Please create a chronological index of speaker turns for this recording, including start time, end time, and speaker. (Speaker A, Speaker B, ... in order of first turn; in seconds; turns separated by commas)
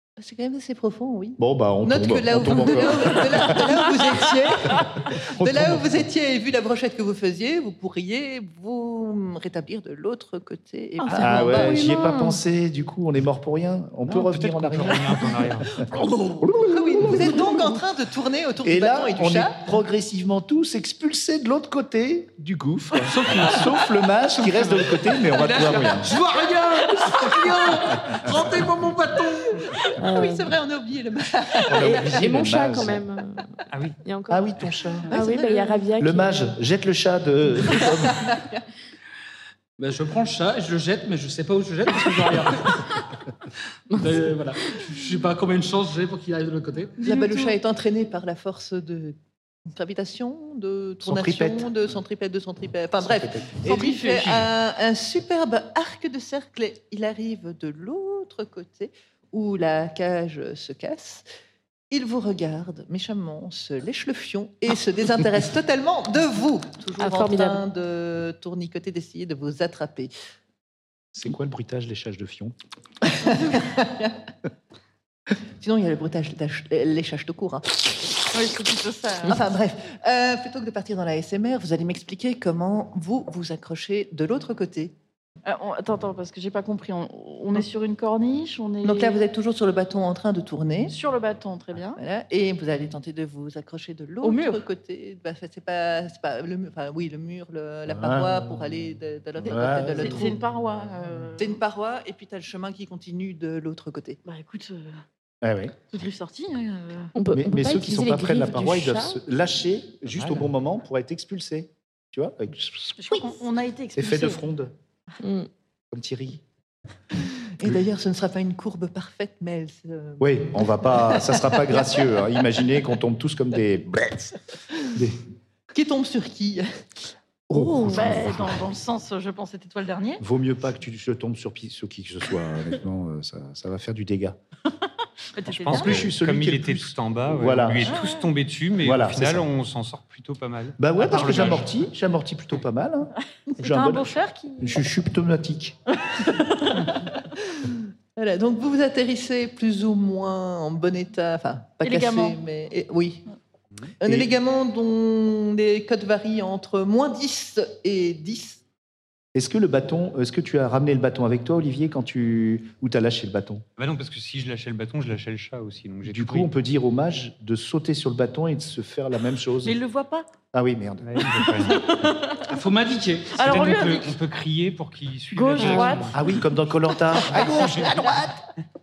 Speaker A: 0.2-11.8, Speaker B: 1.4-3.8, Speaker B: 4.7-6.0, Speaker C: 11.0-12.4, Speaker B: 11.1-15.9, Speaker D: 14.0-15.8, Speaker E: 16.0-16.4, Speaker A: 16.0-19.6, Speaker B: 16.4-17.8, Speaker B: 18.6-26.1, Speaker E: 23.0-29.8, Speaker B: 28.0-28.4, Speaker C: 30.0-30.5, Speaker A: 30.0-32.2, Speaker B: 31.7-33.0, Speaker C: 31.8-36.5, Speaker D: 33.7-34.0, Speaker B: 34.3-35.1, Speaker A: 35.1-35.8, Speaker B: 36.0-38.3, Speaker A: 38.2-38.6, Speaker E: 39.8-43.0, Speaker E: 43.9-47.0, Speaker F: 47.0-47.5, Speaker A: 47.0-61.3, Speaker B: 51.0-51.7, Speaker B: 53.0-53.6, Speaker F: 53.6-54.5, Speaker A: 61.9-70.1, Speaker C: 67.0-67.6, Speaker B: 71.1-72.5, Speaker A: 73.0-74.2, Speaker A: 75.6-78.1, Speaker F: 78.3-79.4, Speaker A: 79.2-84.9, Speaker F: 85.5-89.2, Speaker A: 88.8-91.0, Speaker F: 90.9-92.0, Speaker A: 92.0-100.4, Speaker F: 94.2-94.6, Speaker B: 97.9-98.5, Speaker B: 99.4-100.2, Speaker F: 99.7-101.6, Speaker A: 101.4-104.2, Speaker F: 104.2-105.0, Speaker B: 105.4-105.8, Speaker F: 105.9-107.1, Speaker C: 107.1-109.2, Speaker B: 107.3-113.4, Speaker F: 113.0-114.4, Speaker B: 114.0-114.7, Speaker C: 115.2-115.5, Speaker B: 115.9-116.4, Speaker A: 117.5-121.5, Speaker B: 120.2-125.2, Speaker A: 125.7-126.7, Speaker B: 127.5-128.7, Speaker F: 127.6-130.2, Speaker B: 130.2-134.4, Speaker F: 135.3-136.0, Speaker D: 135.4-141.8, Speaker B: 135.7-138.0, Speaker F: 137.9-138.2, Speaker B: 138.8-139.5, Speaker B: 140.8-145.8, Speaker F: 143.5-144.8, Speaker F: 146.0-146.9, Speaker A: 147.5-153.2, Speaker F: 151.8-152.4, Speaker A: 154.0-158.6, Speaker B: 154.0-154.3, Speaker B: 159.3-163.6, Speaker D: 163.8-166.5, Speaker B: 166.0-169.8, Speaker F: 169.6-170.2, Speaker B: 170.5-171.3, Speaker D: 171.0-172.1, Speaker F: 171.6-172.4, Speaker E: 172.4-174.1, Speaker F: 173.3-174.1, Speaker D: 173.4-176.2, Speaker F: 175.3-176.3, Speaker B: 176.1-178.4